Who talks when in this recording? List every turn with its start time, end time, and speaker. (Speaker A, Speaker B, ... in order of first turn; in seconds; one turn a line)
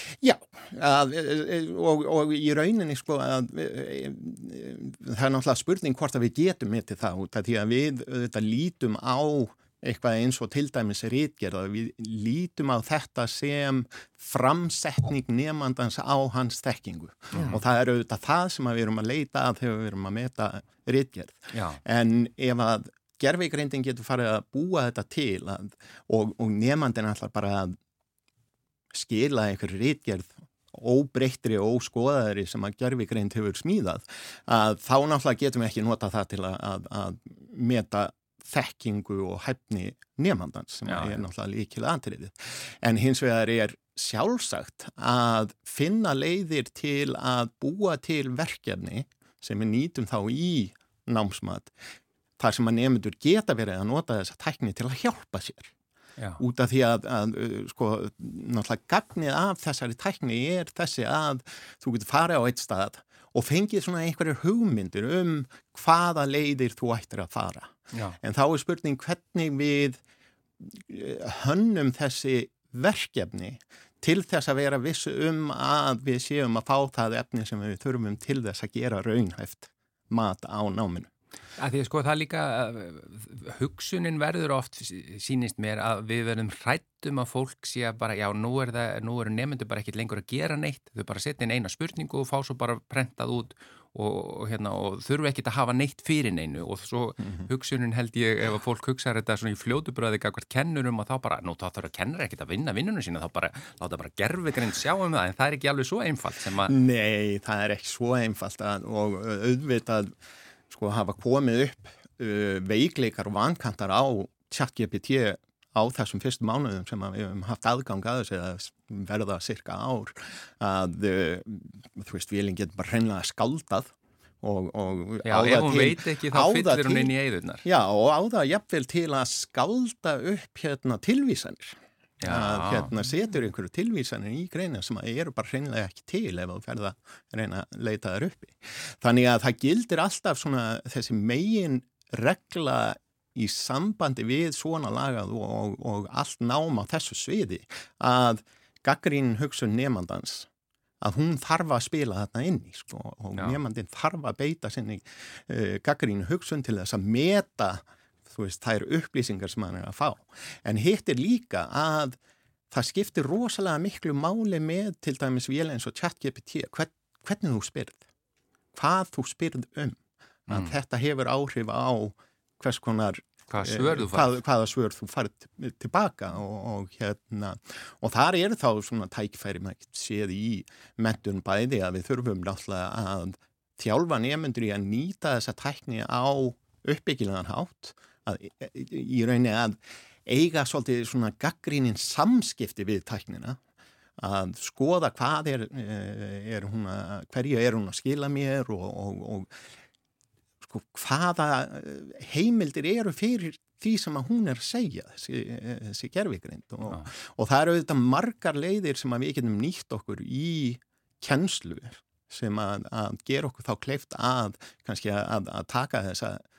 Speaker A: 0.2-27.8
Speaker B: 21.5-21.8
Speaker A: 28.9-51.7
Speaker B: 40.9-41.3
Speaker A: 52.4-55.7
Speaker A: 56.4-70.0
Speaker B: 67.9-68.2
Speaker A: 70.6-81.1
Speaker B: 81.6-106.7
Speaker A: 106.7-110.1
Speaker A: 110.7-127.1
Speaker B: 125.2-127.7
Speaker A: 127.7-150.5
Speaker B: 132.2-132.9
Speaker A: 151.0-162.2
Speaker A: 162.7-168.0
Speaker A: 168.7-193.6
Speaker B: 170.5-170.8
Speaker B: 173.5-174.4
Speaker A: 194.2-199.5
Speaker A: 200.6-216.4